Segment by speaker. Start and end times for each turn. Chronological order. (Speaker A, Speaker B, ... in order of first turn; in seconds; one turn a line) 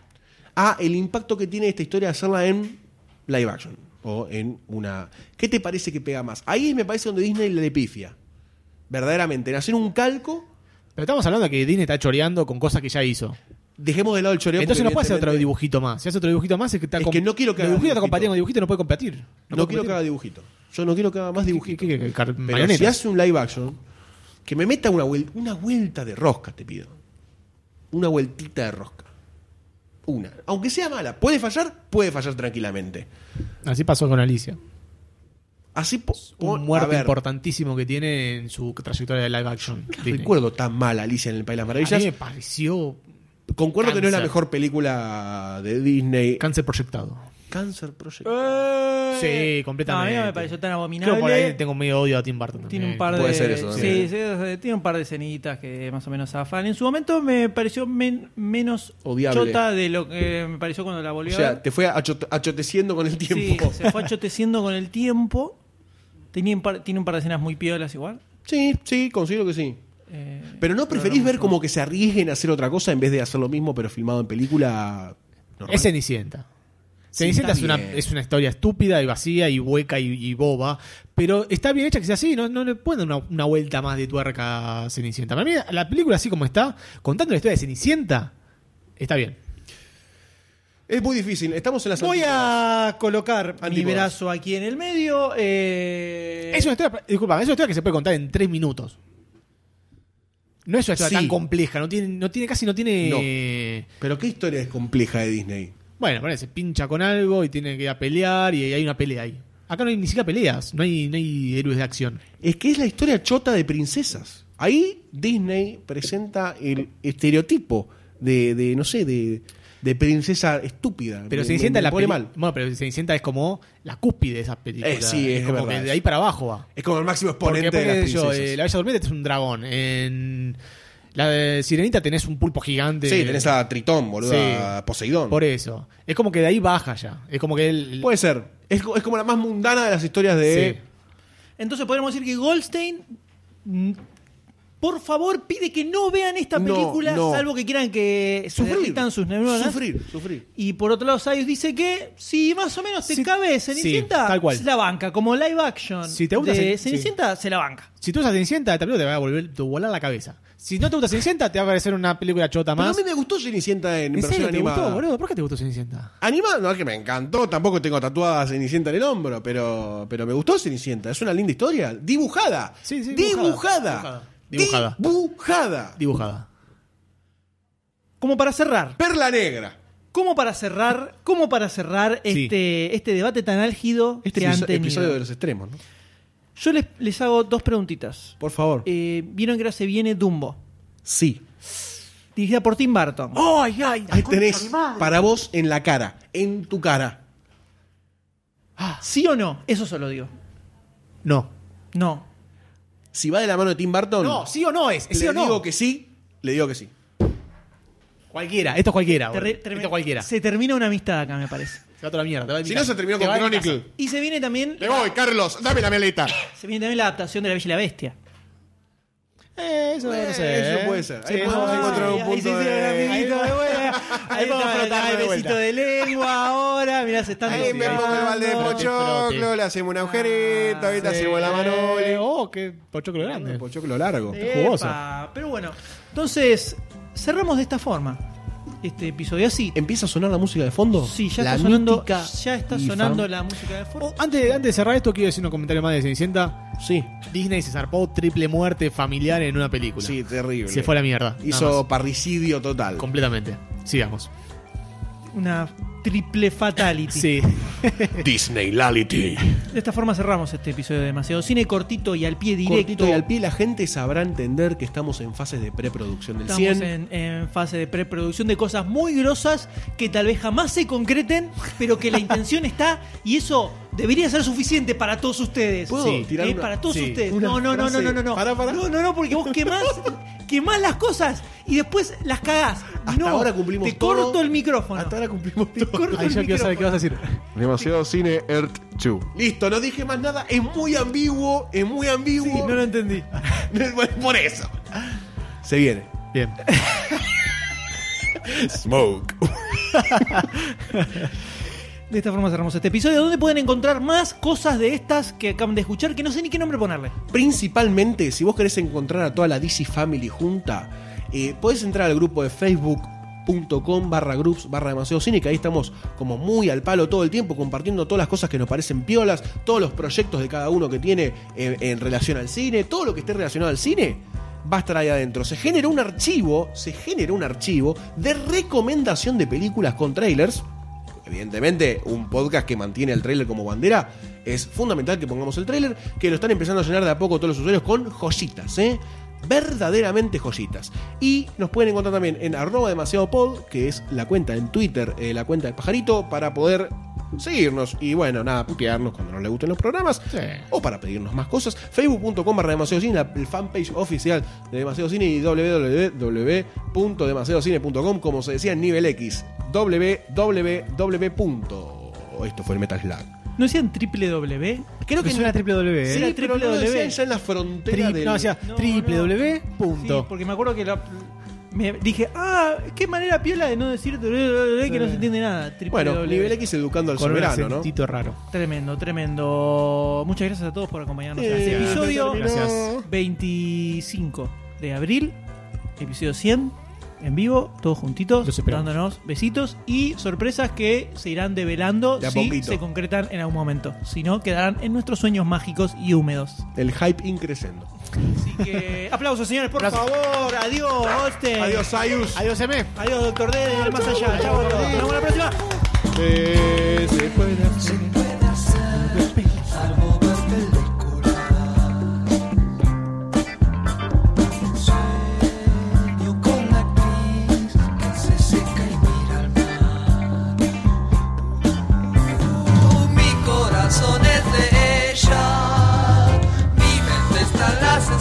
Speaker A: 0.6-8.2
Speaker A: 8.9-10.5
Speaker B: 11.0-13.4
Speaker A: 13.8-15.5
Speaker B: 14.6-20.0
Speaker A: 17.0-18.3
Speaker A: 19.5-21.9
Speaker B: 21.5-23.0
Speaker A: 22.5-23.8
Speaker A: 24.5-26.9
Speaker A: 27.9-29.1
Speaker A: 30.1-33.1
Speaker B: 33.6-34.6
Speaker A: 35.8-37.2
Speaker B: 36.4-40.3
Speaker A: 39.9-42.1
Speaker B: 41.8-43.0
Speaker A: 43.6-46.4
Speaker B: 43.8-44.4
Speaker B: 46.4-47.3
Speaker A: 47.5-48.7
Speaker C: 48.4-51.6
Speaker B: 49.1-54.0
Speaker C: 52.7-61.6
Speaker A: 53.1-54.1
Speaker A: 59.0-59.6
Speaker A: 61.3-63.8
Speaker C: 63.3-65.6
Speaker C: 66.3-68.2
Speaker A: 68.5-69.8
Speaker C: 70.1-71.5
Speaker A: 70.6-75.9
Speaker B: 75.7-76.5
Speaker B: 77.1-88.3
Speaker A: 77.2-78.1
Speaker B: 89.0-89.4
Speaker A: 90.9-92.6
Speaker C: 92.0-96.7
Speaker A: 93.6-94.1
Speaker B: 96.5-99.0
Speaker B: 100.7-103.9
Speaker A: 101.0-101.4
Speaker A: 103.0-103.3
Speaker A: 104.0-105.8
Speaker B: 106.0-112.2
Speaker A: 112.4-122.3
Speaker B: 121.3-126.7
Speaker A: 124.8-126.0
Speaker A: 126.8-128.6
Speaker B: 127.4-130.6
Speaker B: 131.1-133.6
Speaker A: 133.1-135.4
Speaker B: 134.2-134.7
Speaker B: 135.3-138.1
Speaker A: 138.0-140.8
Speaker B: 140.5-140.8
Speaker C: 141.6-143.1
Speaker C: 143.7-144.0
Speaker C: 144.8-149.8
Speaker A: 146.6-147.5
Speaker A: 148.5-150.5
Speaker C: 150.6-157.9
Speaker B: 153.1-154.7
Speaker B: 156.1-157.1
Speaker B: 158.0-163.0
Speaker A: 162.8-165.0
Speaker B: 164.2-166.1
Speaker A: 166.2-176.0
Speaker B: 172.9-175.0
Speaker B: 176.0-176.5
Speaker C: 178.2-179.0
Speaker A: 179.0-179.8
Speaker C: 180.1-185.2
Speaker B: 182.3-182.5
Speaker A: 184.2-185.8
Speaker C: 186.6-190.6
Speaker A: 188.4-188.9
Speaker A: 191.1-191.4
Speaker C: 192.4-193.4
Speaker B: 193.3-195.2
Speaker A: 194.1-197.2
Speaker C: 199.0-200.3
Speaker B: 201.2-201.5
Speaker C: 201.9-202.3
Speaker A: 203.1-204.5
Speaker B: 204.2-205.6
Speaker A: 205.1-206.9
Speaker B: 208.3-210.3
Speaker C: 209.3-211.8
Speaker B: 212.0-213.8
Speaker A: 212.7-213.9
Speaker C: 214.0-215.1
Speaker A: 214.8-216.4
Speaker C: 216.6-218.2
Speaker B: 219.6-222.3
Speaker A: 220.0-225.5
Speaker C: 221.4-228.9
Speaker B: 223.0-225.6
Speaker B: 227.4-229.5
Speaker A: 227.5-232.3
Speaker C: 230.0-231.3
Speaker B: 231.0-233.7
Speaker A: 233.2-234.4
Speaker B: 234.3-235.0
Speaker C: 234.3-238.2
Speaker C: 238.8-239.8
Speaker A: 239.8-243.3
Speaker C: 241.0-244.6
Speaker B: 244.0-246.6
Speaker A: 246.8-247.1
Speaker B: 247.3-251.8
Speaker A: 250.0-253.1
Speaker B: 253.0-254.3
Speaker C: 255.3-257.3
Speaker B: 257.1-258.3
Speaker A: 258.2-259.7
Speaker C: 259.7-263.2
Speaker A: 262.7-266.9
Speaker C: 266.5-285.2
Speaker A: 275.9-278.9
Speaker B: 275.9-276.3
Speaker B: 276.9-277.2
Speaker A: 283.1-284.4
Speaker A: 284.9-286.3
Speaker C: 285.8-287.1
Speaker B: 286.1-287.4
Speaker A: 287.6-292.8
Speaker C: 292.4-293.4
Speaker A: 293.4-294.8
Speaker A: 295.6-296.1
Speaker B: 296.3-296.6
Speaker A: 298.4-300.6
Speaker B: 300.0-300.4
Speaker B: 300.9-301.2
Speaker C: 302.1-307.1
Speaker A: 307.3-330.6
Speaker A: 331.2-363.3
Speaker B: 350.3-350.6
Speaker C: 363.6-364.9
Speaker A: 365.1-368.6
Speaker B: 365.2-366.3
Speaker C: 366.1-367.2
Speaker B: 367.9-370.3
Speaker C: 368.6-376.6
Speaker B: 374.9-375.3
Speaker A: 375.9-377.9
Speaker B: 377.2-378.4
Speaker C: 378.5-382.4
Speaker A: 381.4-383.0
Speaker B: 381.6-383.0
Speaker C: 383.0-385.4
Speaker C: 386.0-396.7
Speaker B: 388.4-388.9
Speaker A: 392.2-392.8
Speaker A: 396.8-397.9
Speaker C: 398.2-401.9
Speaker A: 401.6-402.4
Speaker B: 402.3-402.9
Speaker C: 403.0-405.6
Speaker B: 404.1-405.1
Speaker A: 404.5-404.9
Speaker A: 406.1-408.4
Speaker B: 408.9-409.8
Speaker A: 409.8-411.4
Speaker A: 417.2-417.4
Speaker A: 418.7-419.5